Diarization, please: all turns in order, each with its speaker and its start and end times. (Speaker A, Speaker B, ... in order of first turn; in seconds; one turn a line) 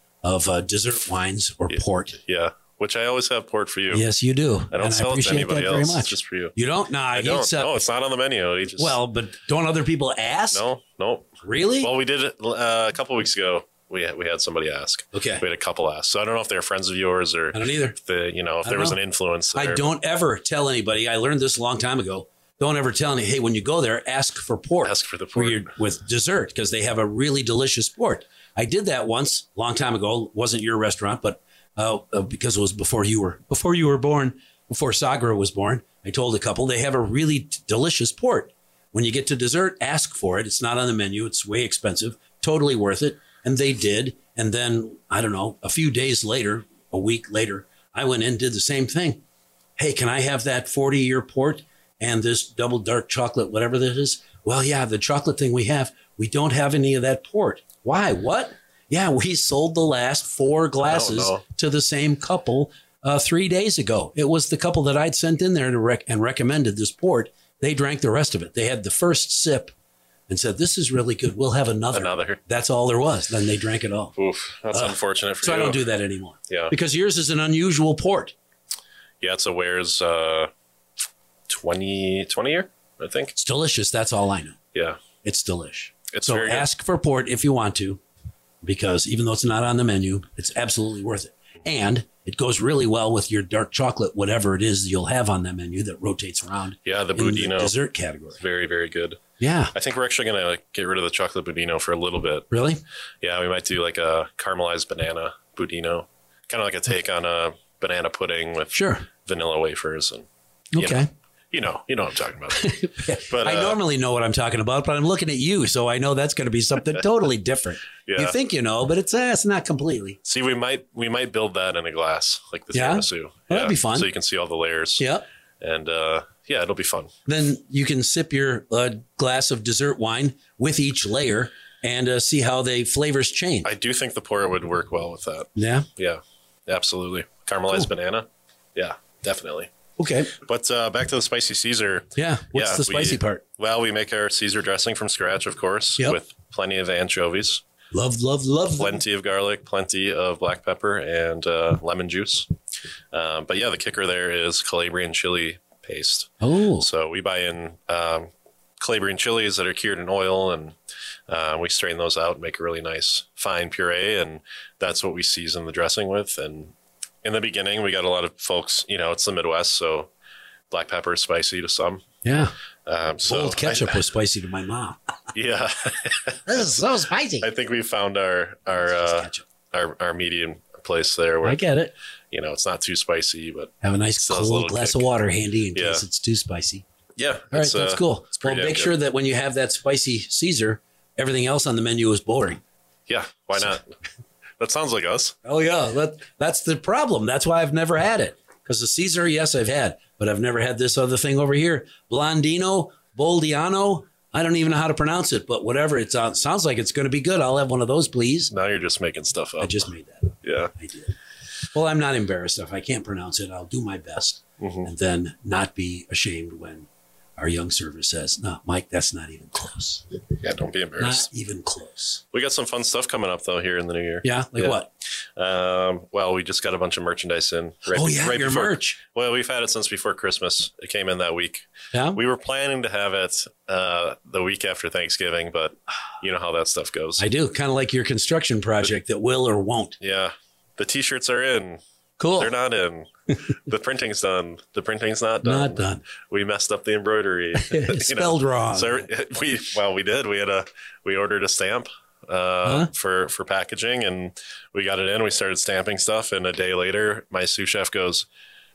Speaker A: 0.2-2.2
Speaker B: 1.7-4.0
Speaker A: 3.9-7.8
Speaker B: 4.7-6.5
Speaker B: 7.1-8.9
Speaker A: 8.8-10.6
Speaker B: 10.5-19.9
Speaker A: 11.4-11.9
Speaker A: 15.1-15.4
Speaker A: 17.5-17.9
Speaker A: 18.6-19.0
Speaker A: 19.5-49.2
Speaker B: 24.8-25.7
Speaker A: 49.8-69.7
Speaker B: 60.8-61.4
Speaker A: 70.3-74.1
Speaker B: 71.9-72.4
Speaker B: 74.2-75.8
Speaker A: 74.7-78.3
Speaker B: 76.5-76.7
Speaker B: 79.2-80.5
Speaker B: 81.5-83.3
Speaker A: 83.3-84.6
Speaker B: 84.7-85.0
Speaker A: 85.2-88.0
Speaker B: 86.1-86.7
Speaker A: 88.6-98.4
Speaker B: 96.8-97.7
Speaker B: 98.4-99.2
Speaker A: 99.4-99.7
Speaker B: 99.7-102.5
Speaker A: 102.5-102.8
Speaker B: 103.2-113.8
Speaker A: 108.7-109.0
Speaker A: 110.7-111.1
Speaker A: 112.5-120.2
Speaker B: 118.0-118.3
Speaker B: 120.2-125.1
Speaker A: 122.7-124.1
Speaker A: 125.0-125.2
Speaker B: 125.6-127.1
Speaker A: 127.3-133.7
Speaker B: 133.6-139.7
Speaker A: 135.6-135.9
Speaker A: 140.0-140.3
Speaker B: 140.4-147.6
Speaker A: 142.2-143.4
Speaker A: 147.9-149.0
Speaker B: 148.8-152.5
Speaker B: 153.1-160.8
Speaker A: 156.4-156.8
Speaker B: 161.3-170.1
Speaker B: 170.7-172.0
Speaker A: 172.2-172.5
Speaker B: 172.8-174.0
Speaker A: 173.2-175.0
Speaker B: 175.3-176.7
Speaker A: 176.5-177.5
Speaker B: 177.4-181.6
Speaker A: 178.8-179.4
Speaker A: 181.4-181.9
Speaker B: 182.3-185.1
Speaker A: 183.8-186.8
Speaker B: 185.7-186.0
Speaker B: 187.2-188.9
Speaker A: 187.5-192.6
Speaker B: 193.1-193.9
Speaker B: 194.6-195.3
Speaker A: 195.4-208.5
Speaker B: 208.5-209.8
Speaker A: 209.6-211.1
Speaker B: 210.4-210.7
Speaker A: 211.7-220.1
Speaker B: 214.6-214.9
Speaker B: 220.4-221.3
Speaker A: 221.0-222.2
Speaker B: 222.3-224.8
Speaker A: 224.2-224.9
Speaker B: 225.3-237.2
Speaker A: 227.9-229.0
Speaker A: 231.9-232.2
Speaker A: 237.2-240.0
Speaker B: 240.0-241.8
Speaker A: 242.2-242.5
Speaker B: 242.4-258.2
Speaker A: 245.4-246.0
Speaker A: 247.6-249.1